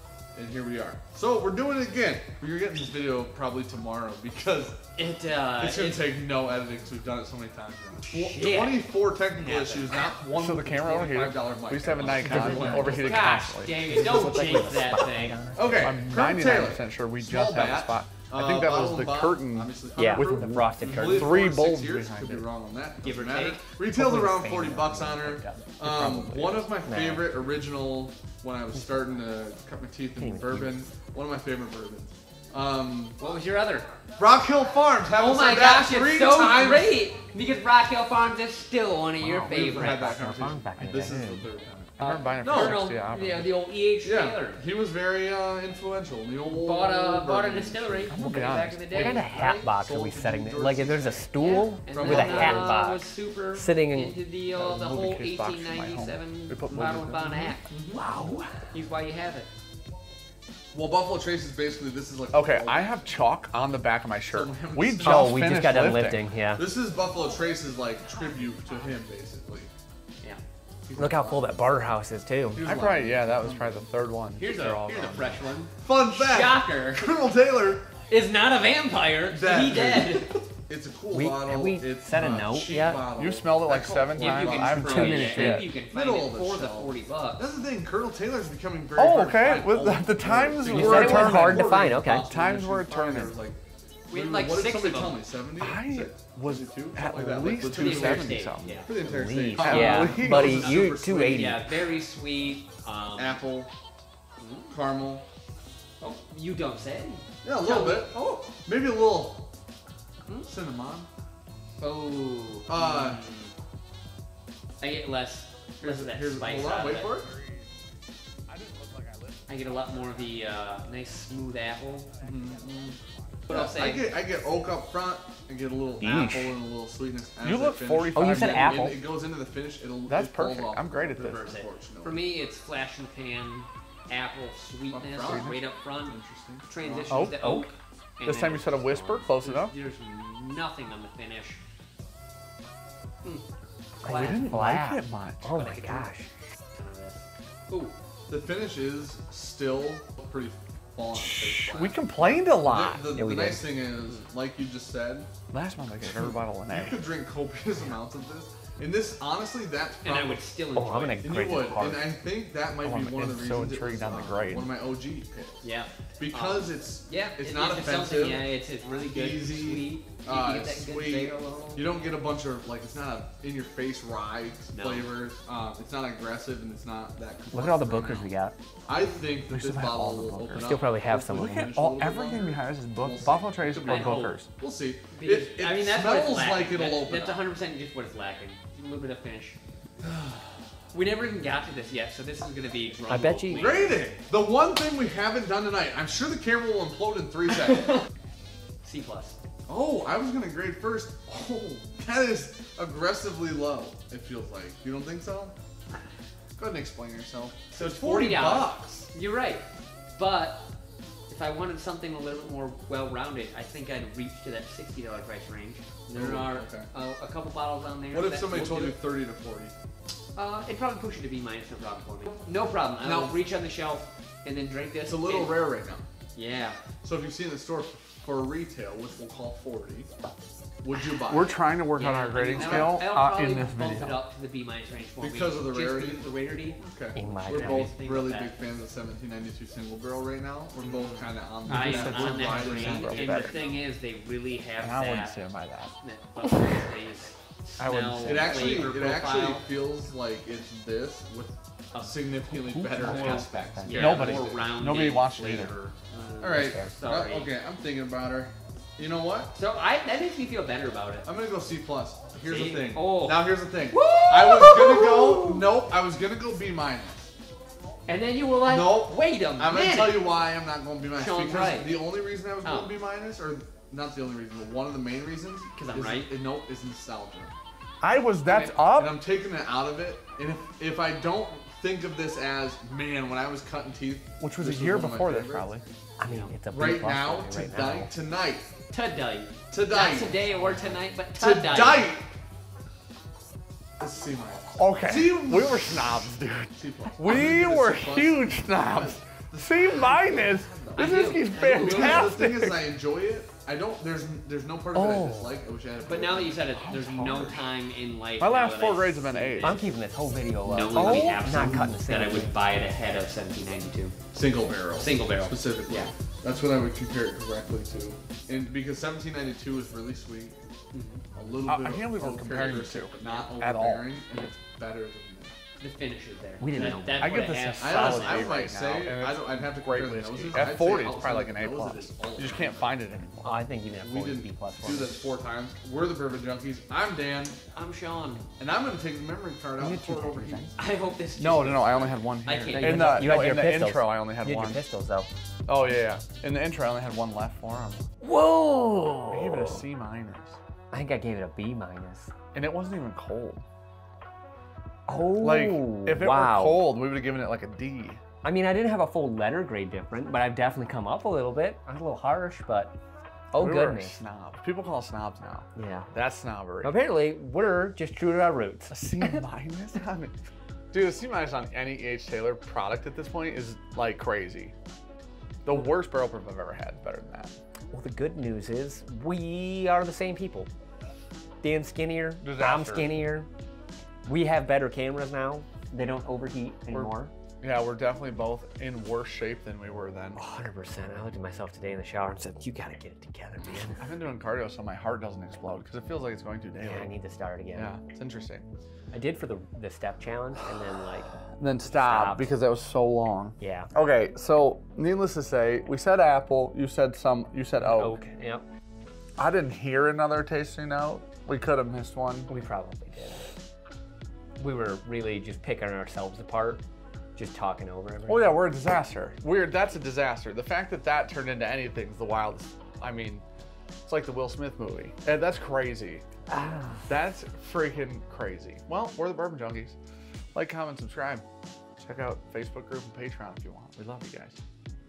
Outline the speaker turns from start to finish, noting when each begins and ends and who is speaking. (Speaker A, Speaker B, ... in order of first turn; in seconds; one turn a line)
Speaker A: 0.3-4.8
Speaker B: 4.9-6.2
Speaker A: 5.6-13.2
Speaker B: 8.1-10.2
Speaker C: 10.3-14.9
Speaker D: 12.0-13.0
Speaker B: 12.2-15.5
Speaker D: 13.9-16.0
Speaker A: 15.5-33.2
Speaker C: 15.8-22.5
Speaker D: 20.0-21.3
Speaker B: 20.8-21.3
Speaker B: 23.0-23.7
Speaker D: 23.9-25.8
Speaker C: 25.8-26.7
Speaker D: 26.8-27.3
Speaker D: 30.2-30.8
Speaker B: 33.2-33.9
Speaker A: 34.2-37.0
Speaker B: 35.1-40.1
Speaker C: 39.2-39.5
Speaker A: 39.5-42.9
Speaker D: 39.6-41.5
Speaker B: 42.0-44.6
Speaker C: 42.0-43.6
Speaker A: 44.0-48.2
Speaker B: 46.5-49.7
Speaker C: 48.1-49.3
Speaker D: 48.9-53.0
Speaker A: 49.3-51.3
Speaker B: 51.4-57.7
Speaker A: 51.8-52.7
Speaker D: 53.5-54.2
Speaker C: 54.5-57.6
Speaker A: 57.7-58.1
Speaker D: 58.0-58.7
Speaker B: 58.5-59.5
Speaker A: 60.7-63.0
Speaker C: 62.3-66.3
Speaker A: 64.3-65.4
Speaker D: 65.0-66.7
Speaker A: 66.5-69.7
Speaker A: 70.9-71.6
Speaker D: 71.0-72.7
Speaker A: 72.5-73.9
Speaker C: 72.7-75.6
Speaker B: 74.4-77.2
Speaker A: 75.8-77.9
Speaker B: 78.0-80.4
Speaker A: 79.3-93.6
Speaker D: 81.1-83.0
Speaker C: 83.2-85.7
Speaker B: 83.7-87.5
Speaker D: 84.8-85.7
Speaker C: 89.0-93.4
Speaker B: 89.5-89.9
Speaker D: 90.7-92.3
Speaker B: 90.8-91.3
Speaker B: 94.1-95.3
Speaker A: 94.1-101.6
Speaker C: 95.6-98.8
Speaker B: 97.7-98.9
Speaker D: 98.9-101.7
Speaker C: 99.6-100.8
Speaker B: 99.6-103.4
Speaker A: 103.2-103.7
Speaker B: 104.4-104.7
Speaker A: 104.7-105.3
Speaker B: 106.0-108.5
Speaker A: 107.4-109.5
Speaker A: 110.5-111.1
Speaker B: 111.8-113.5
Speaker A: 112.7-113.2
Speaker B: 114.8-117.2
Speaker A: 115.8-117.3
Speaker C: 117.3-117.7
Speaker C: 118.5-119.8
Speaker B: 119.5-122.2
Speaker A: 122.2-123.0
Speaker B: 123.5-124.1
Speaker A: 123.5-132.2
Speaker D: 126.0-126.5
Speaker C: 127.4-128.9
Speaker D: 128.1-129.0
Speaker C: 130.1-131.4
Speaker B: 131.1-141.6
Speaker A: 134.9-135.5
Speaker C: 135.2-135.6
Speaker A: 136.1-137.6
Speaker C: 137.1-137.7
Speaker C: 138.2-139.8
Speaker D: 144.0-146.3
Speaker B: 144.0-144.6
Speaker C: 144.1-145.5
Speaker B: 145.5-146.1
Speaker B: 146.7-147.9
Speaker A: 148.3-155.3
Speaker C: 151.4-153.1
Speaker D: 153.1-153.7
Speaker C: 155.5-157.0
Speaker A: 156.0-160.5
Speaker B: 160.0-161.3
Speaker D: 160.8-162.1
Speaker A: 161.2-165.7
Speaker C: 162.8-164.8
Speaker B: 165.6-172.2
Speaker A: 166.2-178.3
Speaker B: 174.7-175.2
Speaker D: 177.5-178.6
Speaker A: 178.9-187.4
Speaker C: 179.4-180.7
Speaker D: 180.6-181.7
Speaker C: 181.3-184.5
Speaker B: 183.8-184.4
Speaker B: 185.1-189.6
Speaker B: 190.9-194.1
Speaker D: 193.1-193.8
Speaker A: 193.5-198.0
Speaker B: 198.8-199.4
Speaker A: 199.7-205.6
Speaker A: 206.6-209.1
Speaker B: 207.7-209.7
Speaker B: 210.2-210.7
Speaker B: 211.3-219.0
Speaker A: 216.1-216.9
Speaker A: 218.1-219.7
Speaker B: 220.3-225.7
Speaker A: 223.0-223.4
Speaker A: 225.1-226.1
Speaker B: 226.3-226.8
Speaker A: 226.9-230.1
Speaker A: 230.8-231.6
Speaker C: 231.3-234.2
Speaker B: 232.0-238.6
Speaker A: 232.5-233.0
Speaker A: 235.2-243.7
Speaker D: 237.2-237.9
Speaker B: 240.8-245.4
Speaker C: 241.7-243.6
Speaker C: 244.8-245.9
Speaker B: 246.0-249.7
Speaker C: 247.8-248.9
Speaker A: 248.2-254.4
Speaker B: 251.9-252.3
Speaker D: 252.5-254.2
Speaker C: 253.0-255.8
Speaker B: 253.0-257.5
Speaker A: 256.4-259.6
Speaker B: 259.5-261.3
Speaker A: 261.2-267.3
Speaker B: 262.4-265.6
Speaker B: 268.1-270.4
Speaker A: 268.6-277.5
Speaker B: 271.1-272.1
Speaker B: 272.6-273.0
Speaker B: 275.7-276.3
Speaker C: 278.0-279.2
Speaker A: 278.5-285.7
Speaker C: 284.4-285.9
Speaker D: 286.2-288.1
Speaker B: 286.3-286.6
Speaker A: 286.7-288.7
Speaker B: 288.9-292.2
Speaker A: 289.7-290.5
Speaker A: 291.4-292.3
Speaker A: 294.0-296.1
Speaker C: 294.8-302.9
Speaker A: 296.7-306.7
Speaker B: 300.9-302.4
Speaker C: 304.9-305.5
Speaker B: 306.1-309.9
Speaker C: 306.8-307.7
Speaker C: 308.4-309.8
Speaker D: 309.6-312.6
Speaker B: 310.6-314.2
Speaker C: 310.9-311.6
Speaker A: 314.3-320.6
Speaker B: 315.0-316.1
Speaker B: 320.9-321.2
Speaker A: 321.4-325.5
Speaker C: 321.7-324.1
Speaker B: 323.2-323.5
Speaker B: 325.8-328.6
Speaker D: 326.6-327.5
Speaker C: 326.8-333.6
Speaker A: 327.8-333.1
Speaker D: 333.4-335.2
Speaker A: 334.0-337.6
Speaker B: 337.7-338.5
Speaker A: 338.6-340.7
Speaker D: 339.8-340.8
Speaker B: 340.8-343.5
Speaker C: 341.4-344.8
Speaker D: 342.7-345.3
Speaker C: 345.7-348.0
Speaker D: 348.2-349.8
Speaker C: 349.3-350.6
Speaker D: 350.9-352.3
Speaker C: 352.5-353.6
Speaker D: 355.1-356.9
Speaker C: 355.4-358.2
Speaker D: 358.4-363.0
Speaker D: 363.5-364.2
Speaker C: 363.6-367.0
Speaker D: 365.8-366.1
Speaker D: 366.8-369.4
Speaker C: 368.9-370.4
Speaker C: 370.9-374.7
Speaker C: 375.6-377.5
Speaker D: 377.9-380.7
Speaker D: 381.6-383.5
Speaker C: 382.4-383.1
Speaker D: 384.3-387.3
Speaker C: 386.9-390.4
Speaker D: 390.4-394.1
Speaker C: 394.0-397.1
Speaker D: 396.8-398.0
Speaker C: 397.7-398.6
Speaker D: 399.1-401.3
Speaker C: 401.6-408.2
Speaker D: 401.8-402.5
Speaker D: 403.6-403.9
Speaker D: 407.9-408.6
Speaker C: 409.4-412.5
Speaker D: 412.5-413.6
Speaker D: 414.6-416.8
Speaker D: 417.4-418.6
Speaker C: 418.3-423.4
Speaker C: 424.1-426.2
Speaker D: 426.5-427.1
Speaker C: 427.1-430.0
Speaker C: 430.6-431.4
Speaker C: 432.0-434.6